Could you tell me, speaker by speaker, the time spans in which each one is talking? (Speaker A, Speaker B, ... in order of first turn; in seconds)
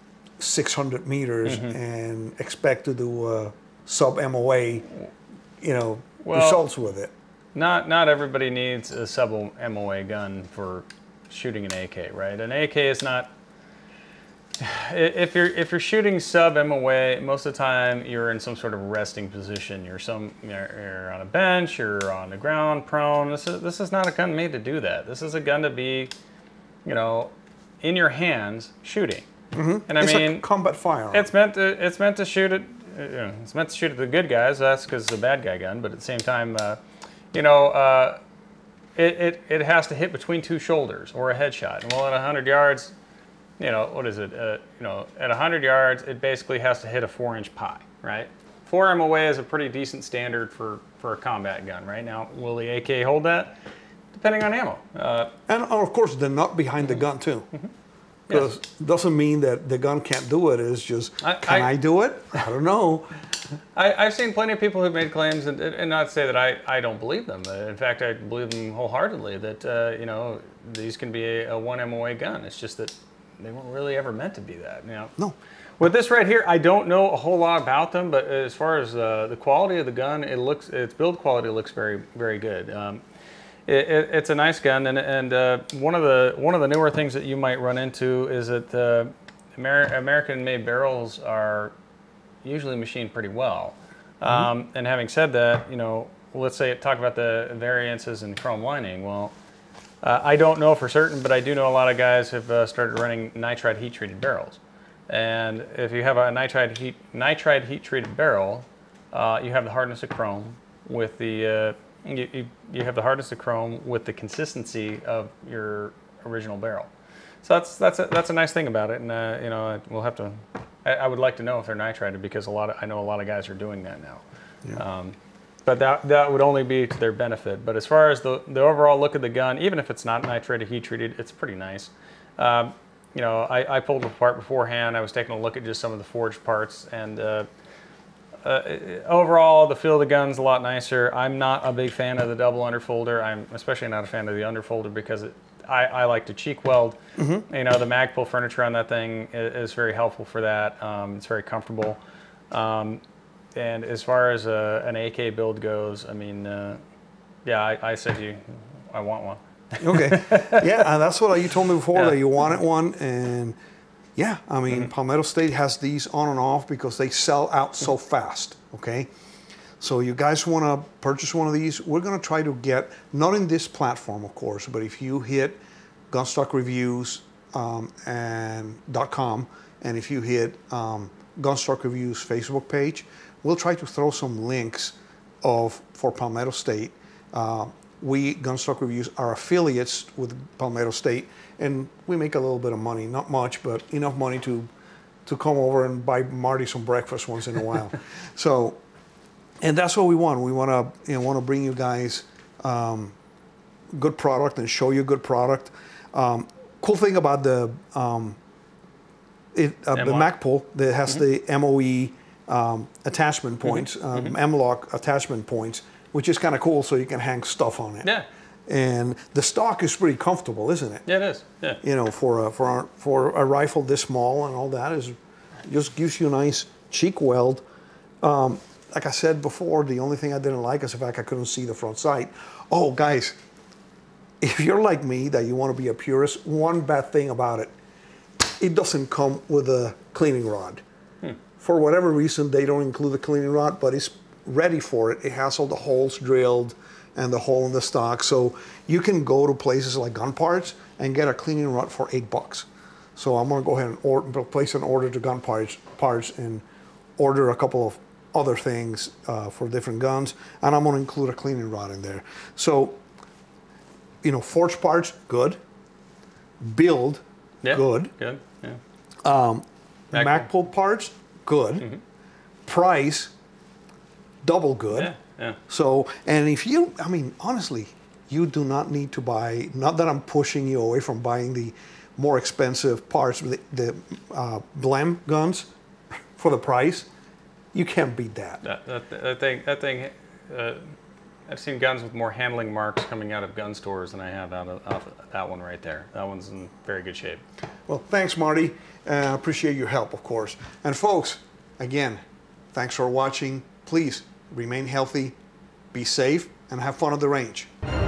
Speaker A: 0.4-4.9, 5.6-7.1, 29.5-31.3, 55.5-57.5, 58.3-63.1, 94.2-94.5, 147.2-147.4, 159.8-163.6, 164.2-169.1, 169.8-175.6, 176.1-194.7, 195.2-198.8, 199.6-203.2, 203.9-208.4, 209.5-218.1, 218.7-221.1, 221.8-227.6, 228.2-233.4, 234.4-237.7, 238.6-240.8, 241.6-256.6, 257.2-263.0, 264.2-265.6, 266.6-268.1, 269.2-271.9, 272.7-273.3, 274.4-275.1, 275.7-285.7, 286.4-287.1, 287.7-288.6, 297.9-302.2, 302.7-305.4, 305.9-307.7
Speaker B: 1.4-1.8, 6.2-6.6, 7.5-13.3, 14.6-26.1, 26.8-29.2, 29.9-30.4, 31.1-36.8, 37.3-38.2, 39.0-42.9, 43.6-53.5, 54.1-55.3, 61.2-61.7, 63.7-75.1, 75.8-83.0, 83.7-91.7, 92.4-99.3, 100.0-116.9, 117.4-124.2, 124.8-125.1, 125.7-137.5, 138.4-152.0, 152.5-153.0, 153.5-156.8, 157.4-160.6, 161.9-162.2, 209.9-210.3, 213.6-214.3, 221.1-221.8, 267.6-268.8, 270.1-270.5, 274.9-275.6, 288.6-290.9, 291.5-297.4